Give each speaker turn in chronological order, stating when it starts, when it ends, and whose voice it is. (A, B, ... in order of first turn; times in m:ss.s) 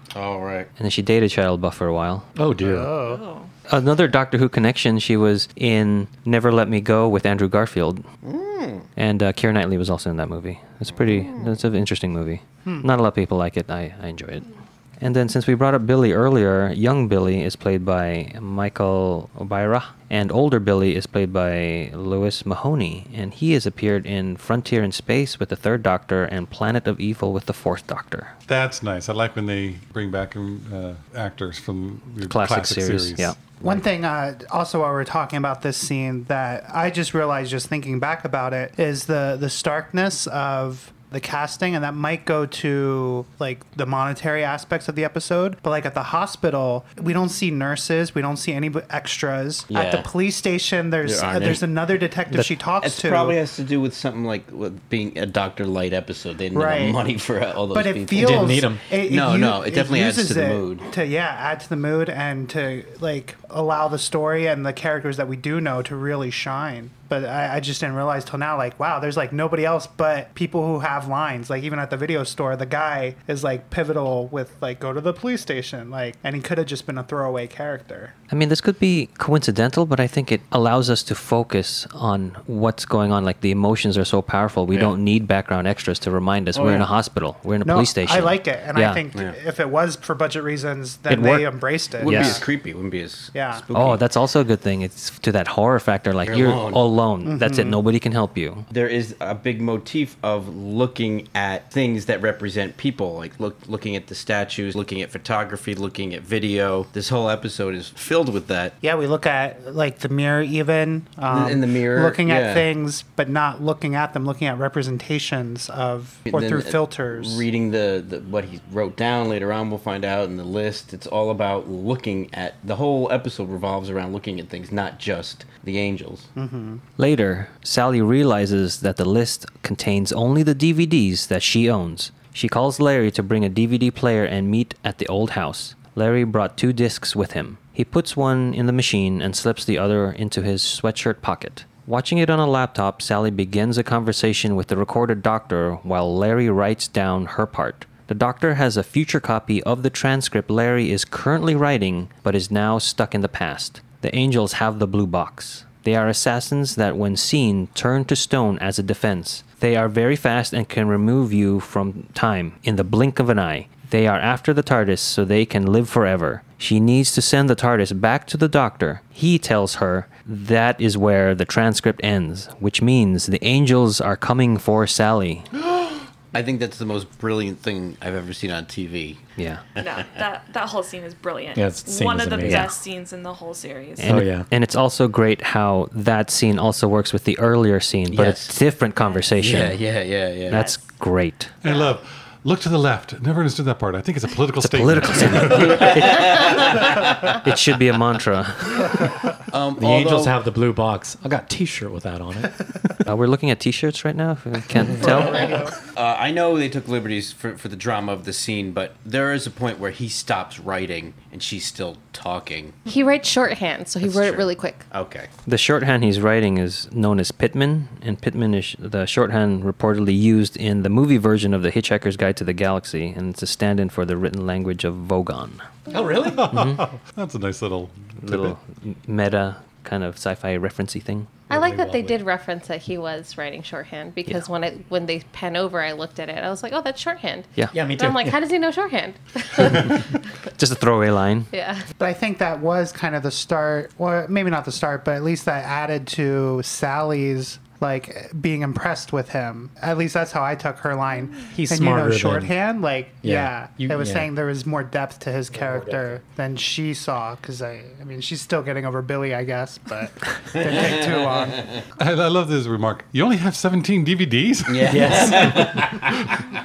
0:00.1-0:00.7 A
0:00.8-0:02.3 B
0:02.3-0:02.9 C
0:02.6-0:03.2 D
0:03.0-0:03.5 E
0:03.7-0:08.0 B
0:08.2-0:08.9 A
0:09.0-0:28.3 B
0:10.9-0:11.6 A
0:28.5-0:33.5 F
0:32.2-0:33.4 B
0:33.6-0:53.4 D
0:49.7-0:50.1 A
0:51.0-0:51.6 A
0:52.3-0:52.6 C
0:52.8-1:00.9 A
0:56.5-0:57.0 D
0:57.7-1:18.1 D
0:58.2-0:58.8 C
1:18.3-1:29.0 B
1:26.5-1:26.9 A
1:27.6-1:32.4 D
1:31.1-1:31.5 B
1:32.0-1:34.0 A
1:32.0-1:32.4 B
1:33.3-1:33.6 D
1:33.7-1:38.6 B
1:36.2-1:36.8 A
1:37.2-1:37.8 D
1:38.7-1:48.8 A
1:48.8-1:57.4 D
1:51.3-1:52.7 A
1:56.3-2:06.3 A
2:06.3-2:06.8 D
2:07.0-2:55.5 B
2:55.7-2:59.2 A
2:59.4-2:59.6 B
2:59.8-3:04.2 E
3:01.5-3:02.7 C
3:02.4-3:02.7 B
3:04.0-3:09.8 B
3:04.0-3:04.5 C
3:08.1-3:08.6 A
3:09.0-3:09.2 E
3:09.4-3:10.7 A
3:10.5-3:11.5 B
3:10.5-3:10.8 E
3:11.6-3:16.0 F
3:14.6-3:19.1 B
3:15.6-3:17.4 A
3:19.5-3:20.3 A
3:19.8-3:22.7 C
3:23.0-3:25.6 B
3:25.0-3:25.8 D
3:25.1-3:32.8 A
3:32.9-3:34.8 G
3:34.0-3:35.3 A
3:35.4-3:45.6 B
3:45.9-3:46.9 C
3:46.2-3:48.6 F
3:46.5-3:46.8 B
3:48.2-3:51.4 B
3:51.5-3:52.2 C
3:51.5-4:00.2 G
3:57.7-3:58.4 C
4:00.6-4:01.5 B
4:01.5-4:01.9 G
4:02.0-4:21.7 D
4:11.5-4:12.5 C
4:13.2-4:14.3 C
4:20.6-4:21.8 A
4:22.0-4:26.1 F
4:24.7-4:26.3 A
4:24.9-4:25.9 C